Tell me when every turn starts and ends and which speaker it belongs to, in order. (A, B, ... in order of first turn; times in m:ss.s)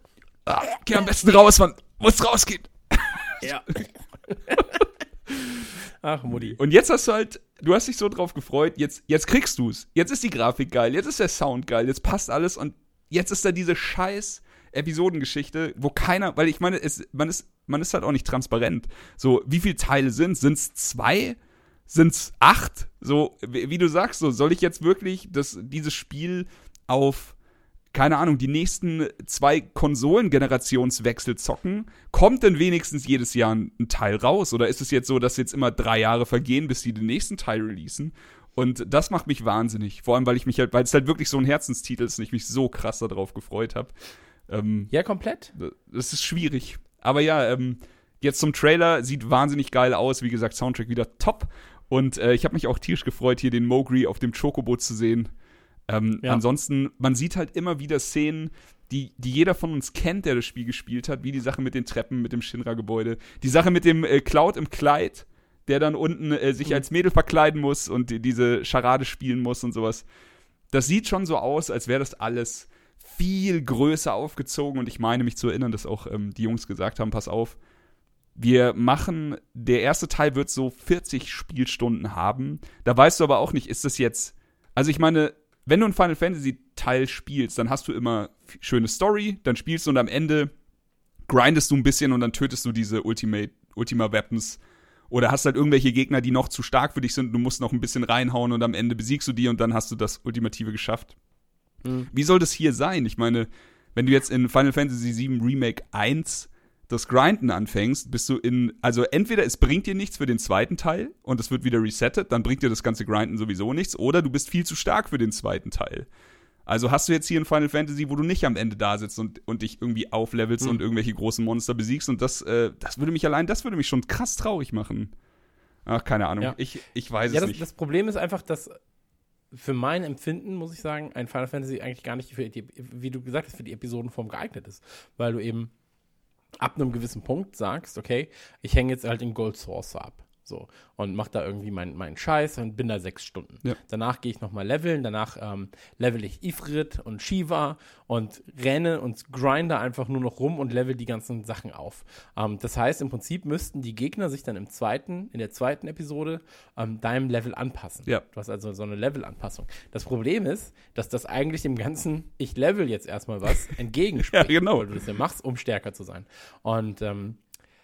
0:00.5-0:03.5 A
0:03.4-0:04.8 B
0:06.0-0:06.6 B
0:06.3-0:21.4 A
0:21.9-0:27.3 A
0:27.9-0:43.9 A
0:44.5-0:44.9 A
0:44.9-0:45.5 B
0:45.5-0:55.3 A
0:55.9-1:10.0 A
1:10.7-1:17.6 A
1:18.4-1:30.5 A
1:31.3-1:41.1 A
1:41.8-1:42.1 B
1:42.1-1:56.1 A
1:56.6-2:05.1 A
2:05.8-2:07.6 A
2:07.3-2:08.8 B
2:09.5-2:15.7 B
2:16.6-2:47.4 B
2:44.2-2:44.9 A